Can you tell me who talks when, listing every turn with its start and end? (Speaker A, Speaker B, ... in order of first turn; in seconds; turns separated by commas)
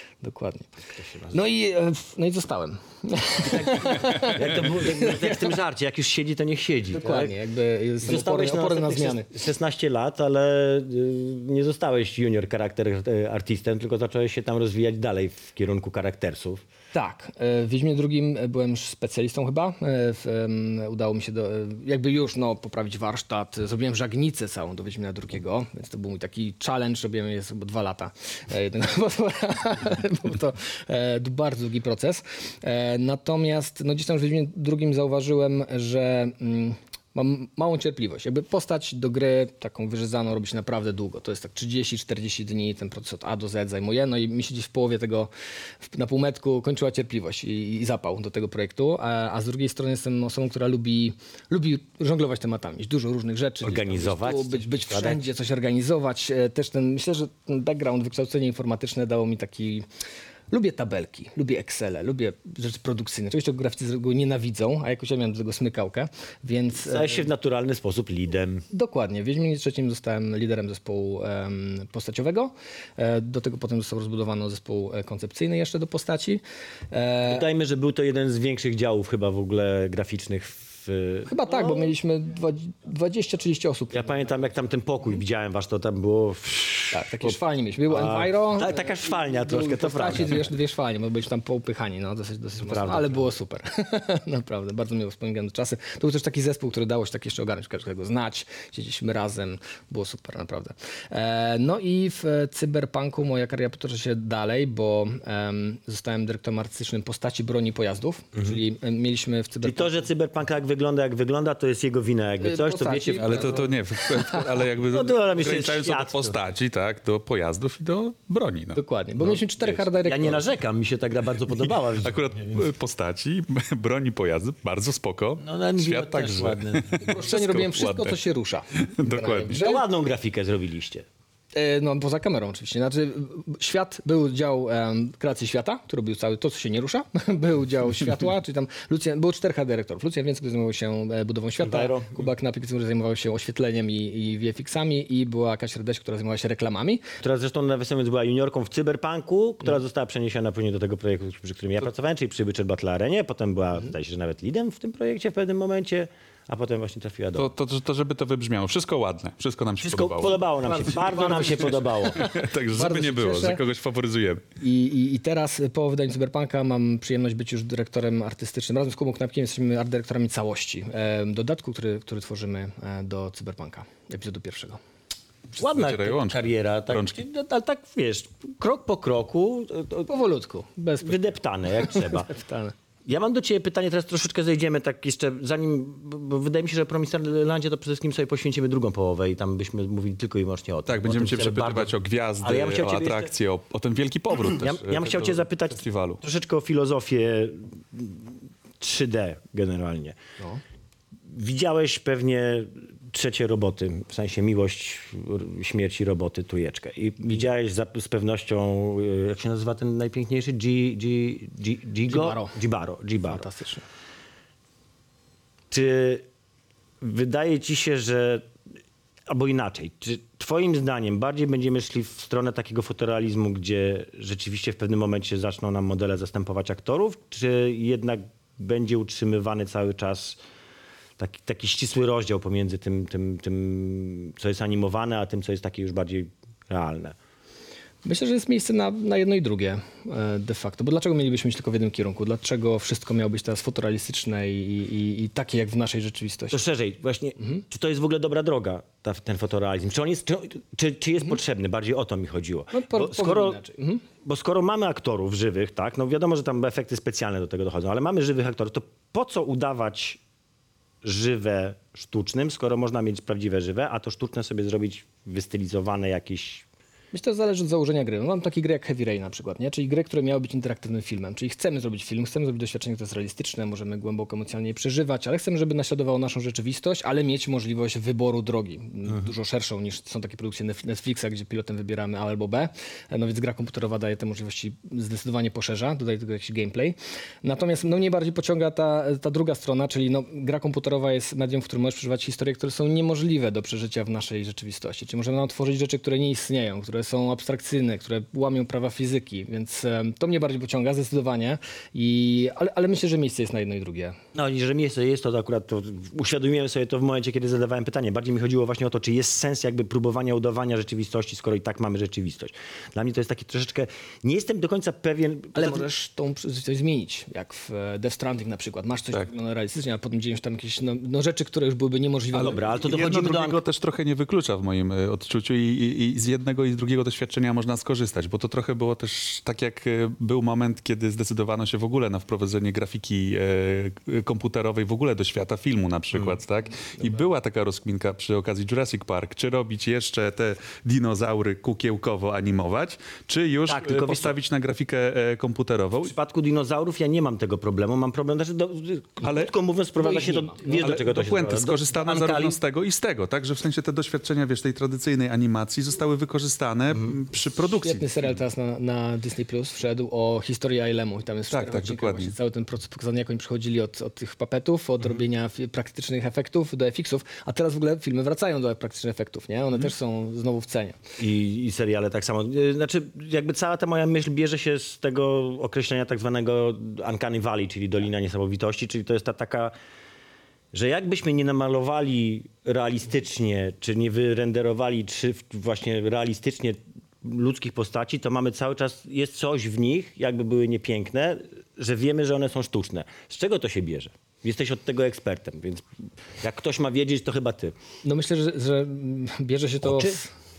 Speaker A: 0.2-0.7, Speaker B: 0.9-1.4, Speaker A: 1.3-5.5, Speaker B: 3.4-7.3, Speaker A: 6.9-9.3, Speaker B: 8.0-16.6, Speaker A: 16.9-45.3, Speaker A: 45.9-59.9, Speaker B: 53.6-55.2, Speaker A: 60.5-67.3, Speaker B: 66.7-68.7, Speaker A: 68.7-77.5, Speaker B: 77.2-81.9, Speaker A: 81.2-84.3, Speaker B: 83.9-87.3, Speaker A: 86.9-110.1, Speaker B: 87.9-90.5, Speaker B: 92.6-93.3, Speaker B: 109.6-113.6, Speaker A: 112.4-114.4, Speaker C: 113.2-118.8, Speaker B: 114.8-116.5, Speaker A: 118.7-120.4, Speaker B: 120.0-122.7, Speaker C: 121.5-128.2, Speaker B: 125.4-127.1, Speaker A: 127.0-129.8, Speaker C: 128.7-129.6, Speaker B: 129.5-131.1, Speaker A: 131.5-147.1, Speaker B: 141.6-142.3, Speaker B: 147.2-157.5, Speaker C: 157.3-164.4, Speaker B: 159.8-162.2, Speaker A: 160.6-163.6, Speaker A: 164.6-174.8, Speaker C: 175.5-177.2, Speaker B: 175.6-180.1, Speaker A: 180.1-182.7, Speaker B: 181.0-182.3, Speaker B: 183.1-193.3, Speaker C: 190.9-196.2, Speaker B: 194.4-200.2, Speaker B: 201.3-213.5, Speaker A: 212.1-212.6, Speaker A: 213.2-213.8, Speaker B: 215.7-216.2, Speaker B: 217.0-218.5, Speaker B: 219.3-230.4, Speaker B: 231.2-237.2, Speaker A: 238.0-246.6, Speaker B: 246.5-253.6, Speaker A: 252.7-254.0, Speaker B: 254.2-260.2, Speaker B: 261.0-266.6, Speaker A: 267.1-304.2, Speaker B: 304.3-315.9, Speaker A: 315.5-322.6, Speaker B: 322.3-323.6, Speaker C: 322.4-346.1, Speaker B: 343.7-344.3, Speaker B: 346.0-352.5, Speaker C: 349.2-349.5, Speaker A: 350.0-350.7, Speaker C: 350.8-358.1, Speaker A: 357.8-371.0, Speaker C: 361.5-362.3, Speaker B: 371.2-379.7, Speaker B: 380.7-397.8, Speaker A: 398.0-400.3, Speaker B: 399.8-400.2